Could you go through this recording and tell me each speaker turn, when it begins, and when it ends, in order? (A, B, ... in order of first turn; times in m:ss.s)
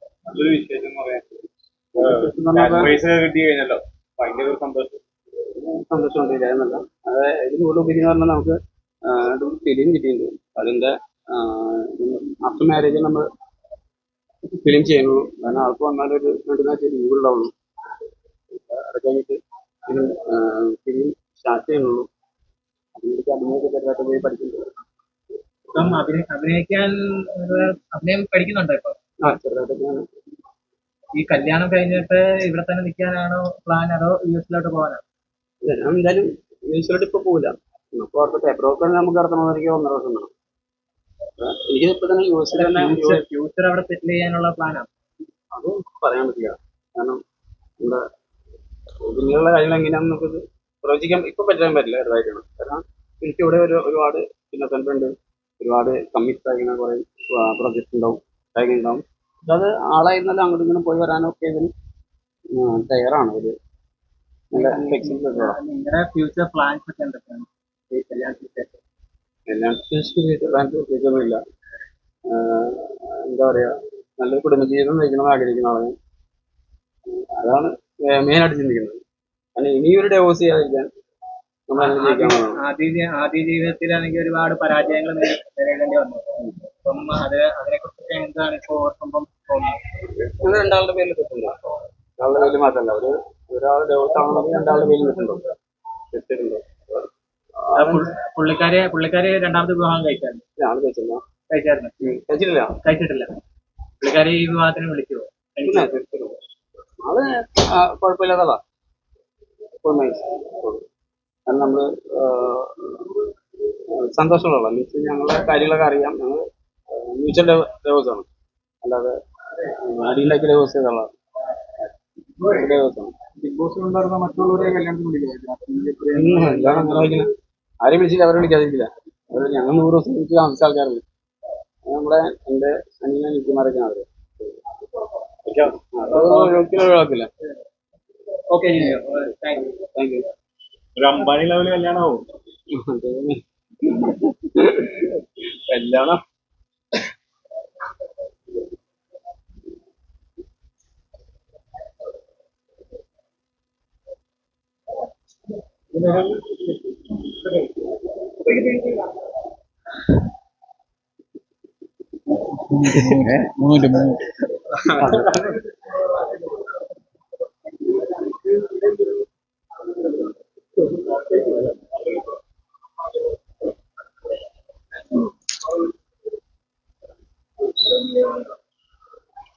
0:00.3-0:01.2 A
0:01.9-0:03.0 B
0:02.0-0:05.0 A
0:05.6-0:13.2 B
0:14.5-0:17.5 B
0:18.5-0:22.0 B
0:23.0-0:24.7 B
0:25.7-0:29.0 C
0:29.2-0:30.0 B
0:31.2-0:35.0 C
0:35.6-0:40.3 B
0:41.4-0:43.2 B
0:42.5-0:44.9 C
0:45.5-0:47.2 B
0:49.0-1:01.7 B
1:02.5-1:03.5 B
1:04.5-1:05.6 B
1:04.5-1:08.8 C
1:09.5-1:11.4 B
1:12.3-1:15.9 B
1:17.1-1:19.0 B
1:19.6-1:20.9 B
1:21.7-1:22.6 B
1:21.8-1:29.8 C
1:30.2-1:31.6 B
1:32.2-1:35.5 B
1:36.1-1:37.1 B
1:37.6-1:38.0 B
1:37.8-1:40.4 C
1:40.6-1:41.2 B
1:41.5-1:41.9 C
1:42.0-1:42.8 B
1:42.8-1:43.3 C
1:44.0-1:45.9 C
1:45.6-1:46.4 B
1:47.0-1:48.6 B
1:49.8-1:50.8 B
1:51.5-1:53.2 B
1:53.9-1:58.2 B
1:58.8-2:01.1 B
2:02.4-2:03.1 B
2:03.4-2:07.2 A
2:06.1-2:07.3 B
2:07.8-2:11.0 B
2:11.9-2:14.5 B
2:15.4-2:15.7 A
2:15.9-2:17.3 B
2:16.1-2:16.7 C
2:18.5-2:19.7 C
2:19.7-2:20.3 B
2:21.0-2:22.2 A
2:22.7-2:26.2 B
2:36.0-2:36.6 C
2:38.4-2:39.1 C
2:45.0-2:45.4 B
2:58.1-2:58.3 C